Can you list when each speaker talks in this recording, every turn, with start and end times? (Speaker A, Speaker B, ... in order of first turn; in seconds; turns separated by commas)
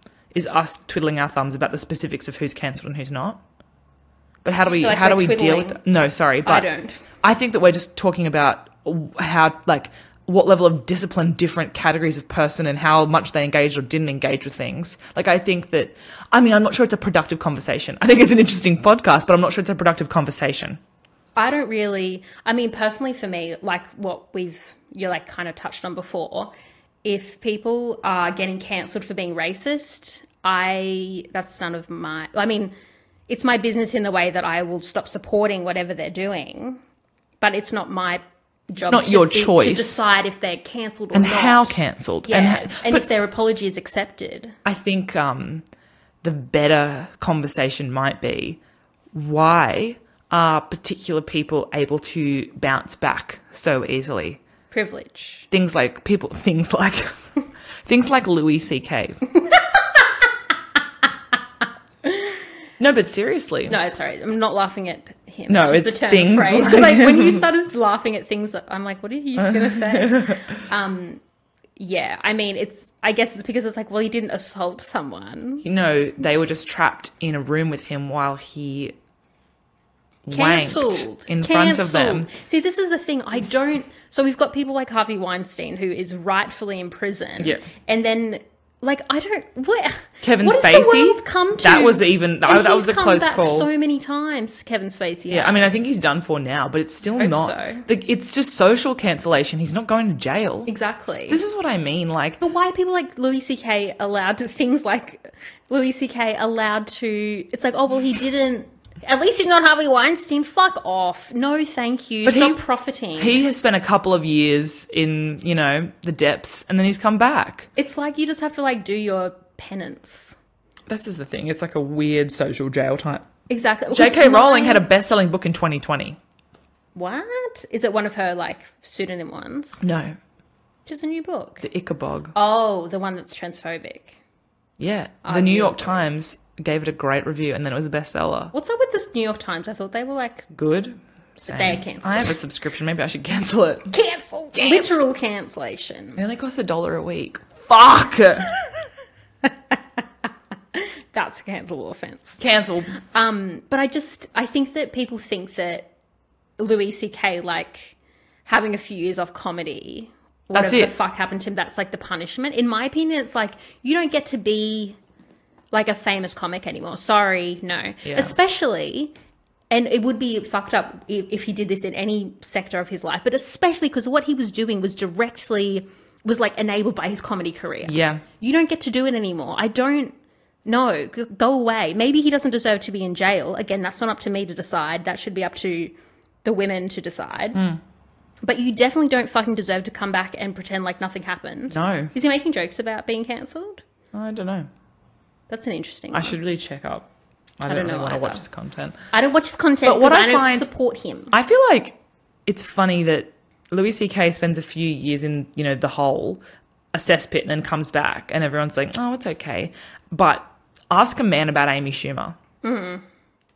Speaker A: 0.3-3.4, Speaker A: 4.4-6.7, Speaker B: 4.6-5.8, Speaker B: 6.4-7.0, Speaker A: 7.2-20.8, Speaker B: 21.4-26.5, Speaker B: 27.0-32.7, Speaker B: 33.3-36.8, Speaker B: 37.4-44.6, Speaker A: 38.9-40.0, Speaker A: 41.1-43.1, Speaker A: 44.6-45.6, Speaker A: 46.2-48.6, Speaker A: 49.1-54.4, Speaker B: 54.7-55.5, Speaker A: 55.5-57.1, Speaker A: 57.9-59.2, Speaker B: 62.0-62.4, Speaker A: 62.8-63.8, Speaker B: 63.7-71.2, Speaker A: 65.5-67.5, Speaker A: 69.4-70.5, Speaker B: 71.8-75.7, Speaker A: 75.6-79.0, Speaker A: 80.2-82.3, Speaker B: 80.3-95.9, Speaker A: 90.2-93.7, Speaker A: 95.3-100.7, Speaker B: 97.2-97.9, Speaker B: 100.7-101.4, Speaker A: 101.3-102.4, Speaker B: 102.4-113.4, Speaker A: 112.2-112.6, Speaker A: 113.2-117.7, Speaker B: 117.8-120.4, Speaker A: 120.9-123.2, Speaker B: 123.5-124.8, Speaker A: 123.9-126.2, Speaker B: 126.9-129.8, Speaker A: 129.8-130.2, Speaker B: 130.9-131.6, Speaker A: 131.6-132.3, Speaker B: 132.3-134.2, Speaker A: 134.8-138.5, Speaker B: 135.2-136.0, Speaker B: 138.5-140.5, Speaker A: 140.5-141.0, Speaker B: 141.4-142.4, Speaker A: 141.5-143.9, Speaker B: 143.9-146.2, Speaker A: 144.5-145.0, Speaker A: 146.2-148.5, Speaker B: 149.4-150.0, Speaker B: 150.7-152.4, Speaker A: 152.4-152.9, Speaker B: 152.9-155.9, Speaker B: 156.6-165.0, Speaker A: 160.5-160.9, Speaker B: 165.7-169.1, Speaker A: 168.0-168.3, Speaker B: 169.7-187.6, Speaker A: 177.8-178.2, Speaker A: 187.5-187.8, Speaker B: 188.4-193.8, Speaker A: 191.7-192.1, Speaker A: 194.1-194.7, Speaker B: 195.5-196.4, Speaker A: 196.1-197.1, Speaker A: 197.6-198.9, Speaker B: 197.7-198.4, Speaker B: 199.1-201.3, Speaker A: 199.8-200.7, Speaker A: 201.3-206.4, Speaker A: 206.9-212.4, Speaker B: 212.6-213.0